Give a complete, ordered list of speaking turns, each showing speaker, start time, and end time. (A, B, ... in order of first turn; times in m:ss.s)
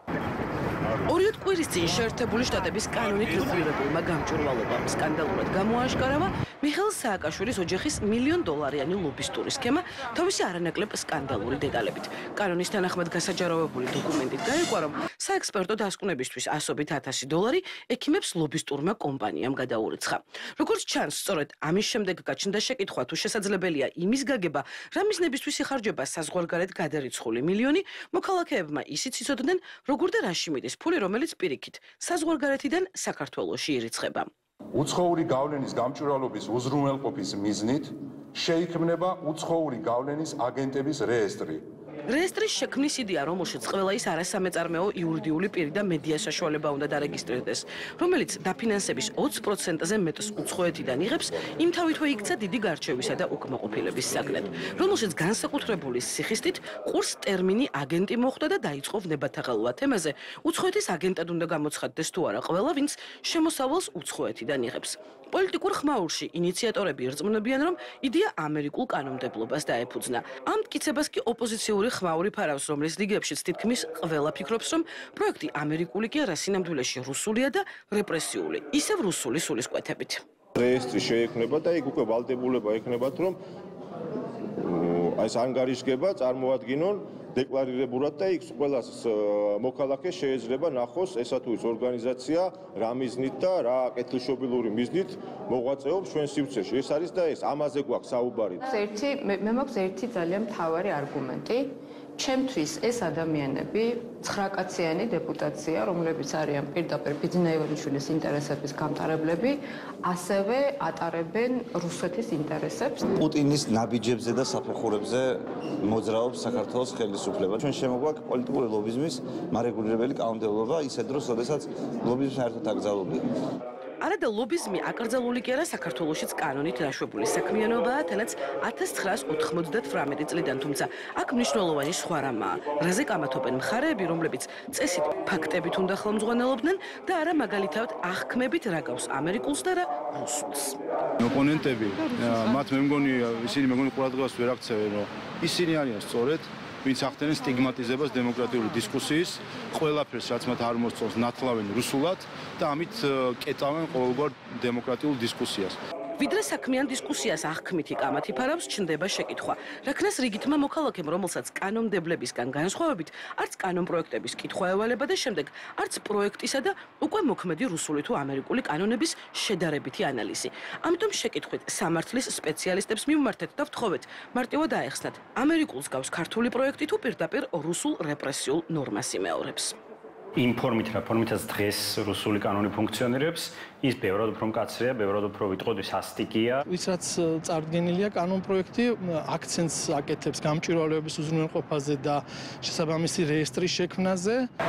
0:01.1-0:34.3 A
0:34.7-0:41.6 B
0:42.1-1:20.2 A
1:20.5-1:23.4 C
1:24.6-1:38.6 C
1:38.7-1:41.7 D
1:42.2-1:53.0 D
1:53.2-2:03.2 E
2:04.0-2:20.8 A
2:21.2-2:35.8 F
2:22.0-2:22.6 D
2:36.2-2:59.8 A
3:00.4-3:06.6 G
3:06.7-3:14.5 H